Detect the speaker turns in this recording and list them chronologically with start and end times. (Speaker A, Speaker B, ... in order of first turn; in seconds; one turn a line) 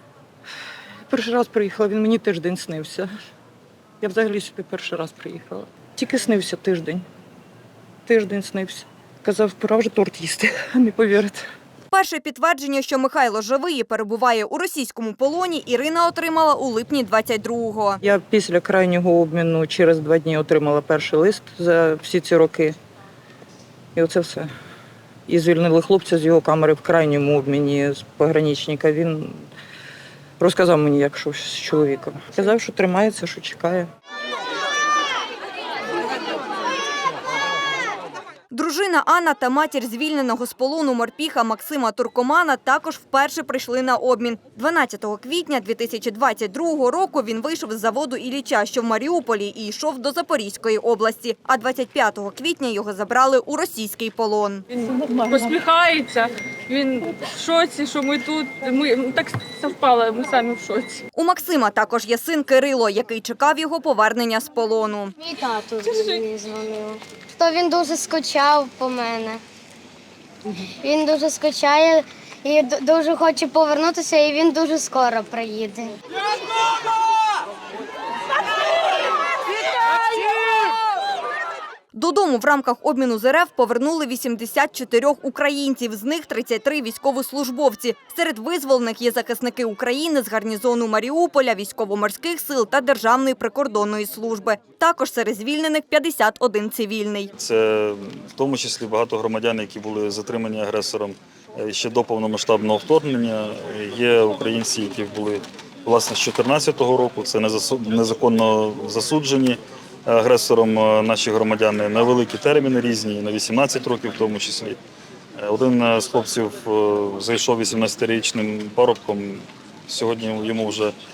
Speaker A: 1.1-3.1
Speaker A: 4.0-7.1
Speaker A: 8.1-11.4
Speaker B: 11.9-18.0
Speaker A: 18.0-22.8
Speaker A: 23.9-24.5
Speaker A: 25.3-29.5
Speaker A: 30.4-33.9
Speaker B: 38.5-54.6
Speaker C: 55.2-60.9
Speaker B: 61.2-65.2
Speaker D: 65.2-69.4
Speaker C: 65.4-66.3
Speaker D: 70.8-75.9
Speaker B: 81.9-97.3
Speaker E: 97.4-114.8
Speaker E: 115.4-121.0